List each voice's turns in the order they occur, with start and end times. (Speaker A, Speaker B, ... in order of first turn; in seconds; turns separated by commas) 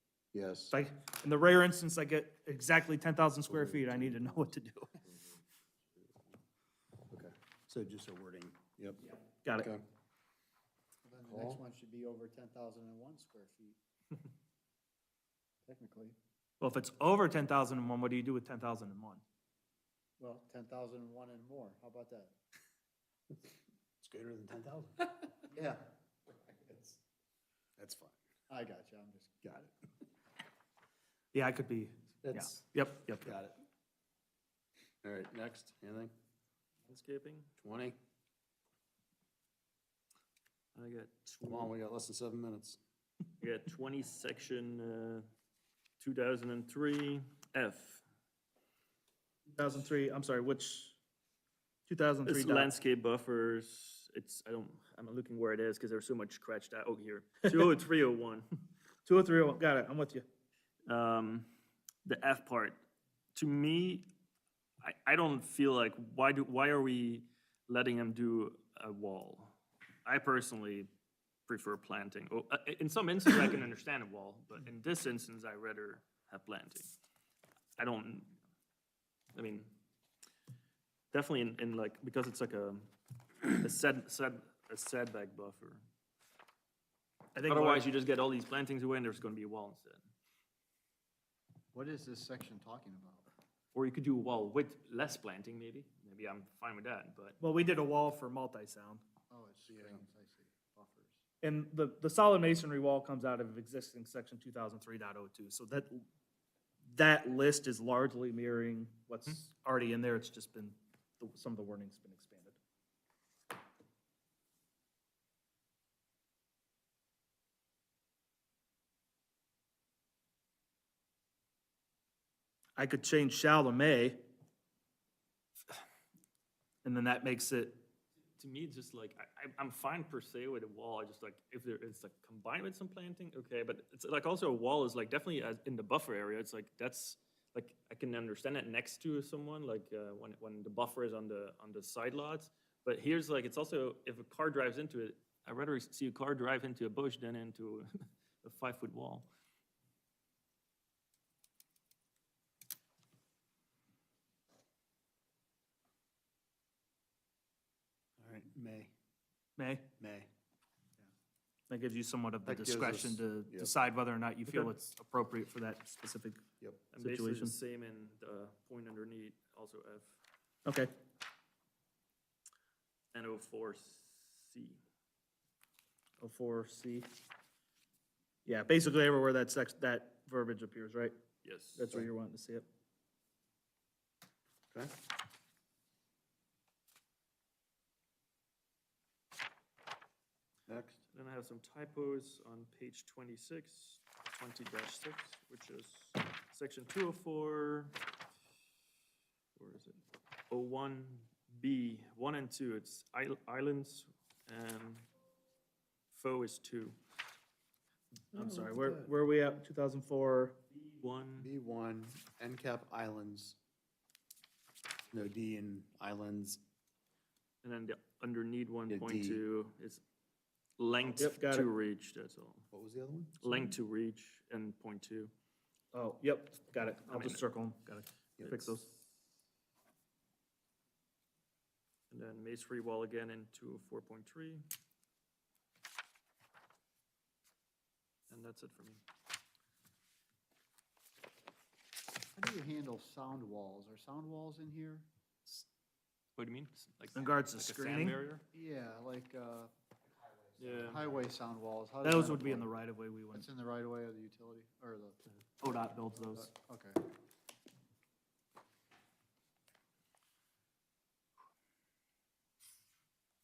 Speaker A: 0.3-0.7, Speaker B: 0.7-5.0, Speaker A: 3.4-4.5, Speaker A: 7.1-9.8, Speaker B: 9.4-9.7, Speaker C: 11.0-13.8, Speaker A: 11.2-11.6, Speaker C: 15.6-16.1, Speaker B: 16.6-19.2, Speaker C: 20.2-22.3, Speaker A: 24.0-25.2, Speaker C: 25.5-25.8, Speaker C: 26.4-27.0, Speaker A: 27.8-28.2, Speaker C: 28.5-29.4, Speaker A: 29.4-29.7, Speaker B: 31.3-33.3, Speaker A: 32.2-32.6, Speaker A: 33.2-33.5, Speaker A: 35.0-36.1, Speaker D: 36.9-37.5, Speaker A: 37.6-38.0, Speaker D: 40.7-41.7, Speaker A: 41.4-42.8, Speaker D: 43.4-45.2, Speaker D: 46.0-48.0, Speaker B: 49.5-51.0, Speaker B: 51.9-52.7, Speaker D: 52.2-58.5, Speaker B: 59.0-60.2, Speaker D: 60.9-61.5, Speaker D: 62.0-62.8, Speaker D: 63.3-64.1, Speaker D: 64.8-70.9, Speaker D: 71.5-76.9, Speaker D: 77.8-78.4, Speaker D: 79.3-79.7, Speaker D: 81.1-82.9, Speaker D: 83.4-85.8, Speaker B: 87.3-87.9, Speaker D: 87.4-90.0, Speaker C: 91.7-93.2, Speaker D: 93.7-97.4, Speaker B: 97.4-99.0, Speaker C: 99.3-101.2, Speaker A: 99.7-100.0, Speaker B: 101.4-106.0, Speaker B: 106.9-112.6, Speaker B: 122.8-124.2, Speaker B: 126.8-127.8, Speaker D: 128.4-147.9, Speaker D: 148.4-149.3, Speaker A: 158.2-158.9, Speaker B: 159.6-159.9, Speaker A: 160.0-160.3, Speaker B: 161.7-166.4, Speaker A: 162.4-163.7, Speaker D: 166.9-170.2, Speaker B: 167.0-167.5, Speaker B: 170.7-170.9, Speaker D: 173.1-174.8, Speaker B: 176.2-177.1, Speaker B: 178.4-181.1, Speaker D: 181.4-181.9, Speaker B: 181.7-182.6, Speaker A: 190.7-191.0, Speaker D: 191.1-198.0, Speaker D: 199.6-200.0, Speaker D: 200.5-205.1, Speaker D: 206.1-206.9, Speaker B: 208.3-210.6, Speaker A: 208.3-209.1, Speaker D: 210.7-211.5, Speaker A: 211.4-213.6, Speaker A: 215.1-216.6, Speaker D: 217.6-220.0, Speaker A: 218.9-219.4, Speaker D: 220.8-222.6, Speaker B: 221.2-221.7, Speaker A: 222.7-223.4, Speaker D: 223.4-225.3, Speaker B: 225.9-228.9, Speaker D: 227.1-227.4, Speaker D: 232.1-234.6, Speaker D: 238.3-239.0, Speaker C: 242.3-245.1, Speaker D: 246.3-248.4, Speaker B: 247.1-248.2, Speaker C: 248.5-249.7, Speaker D: 250.6-251.1, Speaker C: 250.6-252.7, Speaker B: 252.0-253.5, Speaker C: 253.3-255.2, Speaker B: 255.6-256.5, Speaker C: 256.2-257.0